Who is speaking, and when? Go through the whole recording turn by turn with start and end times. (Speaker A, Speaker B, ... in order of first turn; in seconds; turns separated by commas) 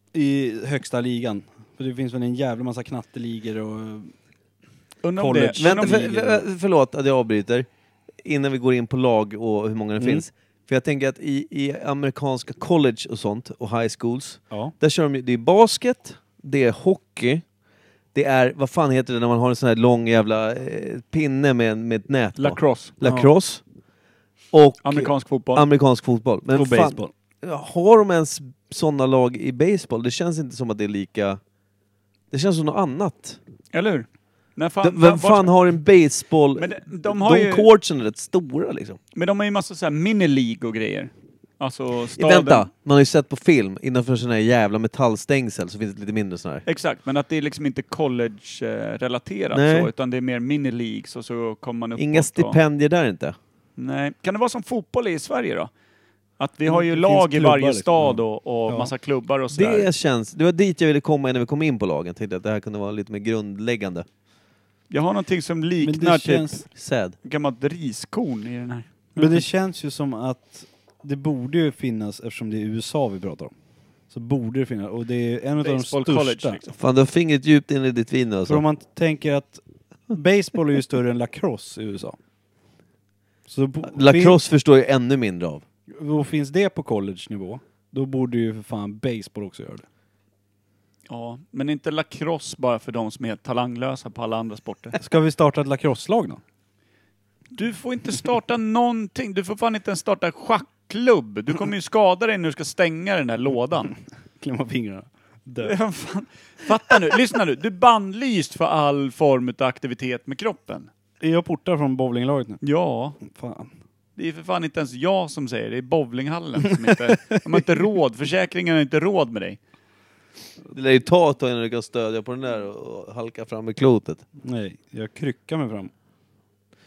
Speaker A: 0.1-4.1, Speaker B: 5.0-6.0, Speaker A: 5.2-6.4, Speaker C: 5.6-7.7, Speaker C: 8.2-17.4, Speaker A: 10.0-10.2, Speaker C: 18.1-23.6, Speaker B: 22.4-23.0, Speaker C: 24.5-31.4, Speaker B: 24.8-25.6, Speaker A: 26.5-27.1, Speaker C: 32.3-33.4, Speaker B: 33.7-35.5, Speaker C: 34.8-39.0, Speaker B: 36.6-37.7, Speaker B: 39.1-42.7, Speaker C: 42.2-46.6, Speaker B: 46.6-52.6, Speaker C: 49.5-49.9, Speaker C: 52.0-53.4, Speaker B: 53.8-55.7, Speaker B: 56.4-59.9, Speaker A: 56.6-58.9, Speaker C: 59.5-64.1, Speaker B: 64.9-66.7, Speaker A: 65.8-66.6, Speaker C: 66.7-67.1, Speaker B: 67.2-69.4, Speaker A: 69.2-73.5, Speaker A: 74.1-76.6, Speaker B: 75.6-76.7, Speaker C: 76.8-78.6, Speaker A: 78.5-82.2, Speaker A: 83.5-84.4, Speaker C: 83.9-85.6, Speaker A: 85.9-89.8, Speaker B: 91.1-95.0, Speaker A: 95.0-96.4, Speaker B: 97.5-103.9, Speaker A: 104.4-105.8, Speaker B: 105.6-110.9, Speaker A: 111.2-112.6, Speaker B: 112.6-113.2, Speaker A: 113.2-113.7, Speaker B: 114.2-119.6, Speaker C: 120.7-124.2, Speaker A: 124.4-125.9